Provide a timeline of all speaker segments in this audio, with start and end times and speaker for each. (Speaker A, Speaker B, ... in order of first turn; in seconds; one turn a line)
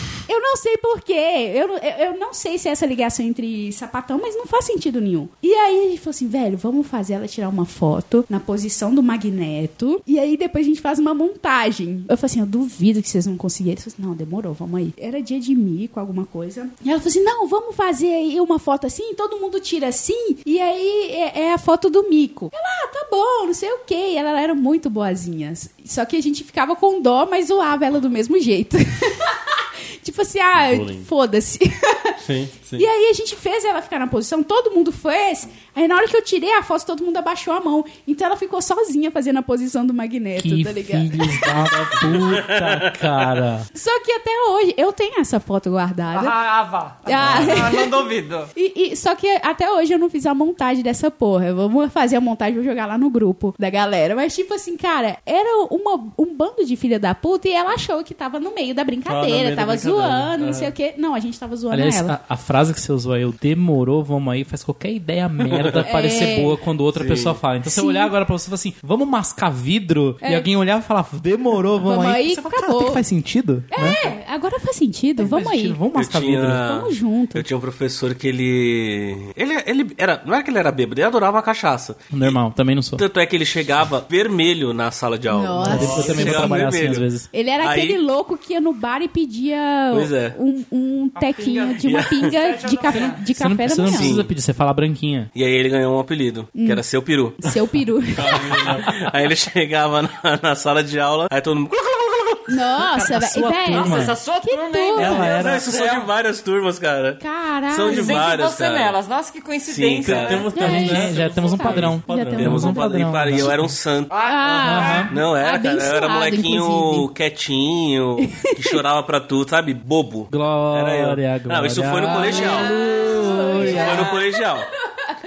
Speaker A: 0.3-32.2
Speaker B: 30.6-31.1
Speaker B: 32.2-32.9
Speaker A: 32.7-41.5
Speaker C: 40.4-43.7
Speaker B: 41.5-42.2
Speaker D: 42.2-43.4
Speaker A: 43.7-46.4
Speaker E: 46.1-48.5
Speaker A: 47.0-62.1
Speaker B: 47.2-47.6
Speaker B: 59.0-60.7
Speaker C: 61.7-74.0
Speaker D: 65.5-66.3
Speaker A: 65.8-66.6
Speaker D: 66.9-67.4
Speaker A: 67.6-68.1
Speaker A: 70.2-70.5
Speaker A: 71.8-73.0
Speaker A: 73.7-75.8
Speaker C: 75.2-76.8
Speaker D: 76.0-82.4
Speaker A: 76.6-77.5
Speaker C: 82.1-83.0
Speaker D: 82.9-87.1
Speaker A: 85.3-86.5
Speaker B: 85.6-86.5
Speaker C: 85.6-87.3
Speaker A: 87.3-94.2
Speaker D: 87.6-88.0
Speaker D: 89.9-90.4
Speaker E: 91.2-93.3
Speaker D: 91.8-92.3
Speaker C: 93.3-95.3
Speaker D: 93.7-94.3
Speaker D: 95.3-97.5
Speaker A: 96.5-96.8
Speaker A: 97.4-98.8
Speaker B: 97.5-99.0
Speaker D: 98.5-102.8
Speaker A: 102.5-105.3
Speaker C: 103.0-104.2
Speaker E: 103.7-106.1
Speaker C: 104.9-105.6
Speaker D: 105.2-109.0
Speaker A: 107.2-108.3
Speaker E: 107.9-110.6
Speaker D: 109.7-110.5
Speaker B: 110.0-112.6
Speaker A: 110.5-112.8
Speaker C: 110.6-113.7
Speaker D: 112.4-114.1
Speaker E: 114.1-115.1
Speaker A: 114.2-117.1
Speaker C: 114.6-115.1
Speaker D: 115.1-122.7
Speaker A: 118.2-118.8
Speaker C: 120.3-124.1
Speaker E: 122.3-124.2
Speaker A: 122.4-124.3
Speaker D: 123.6-124.7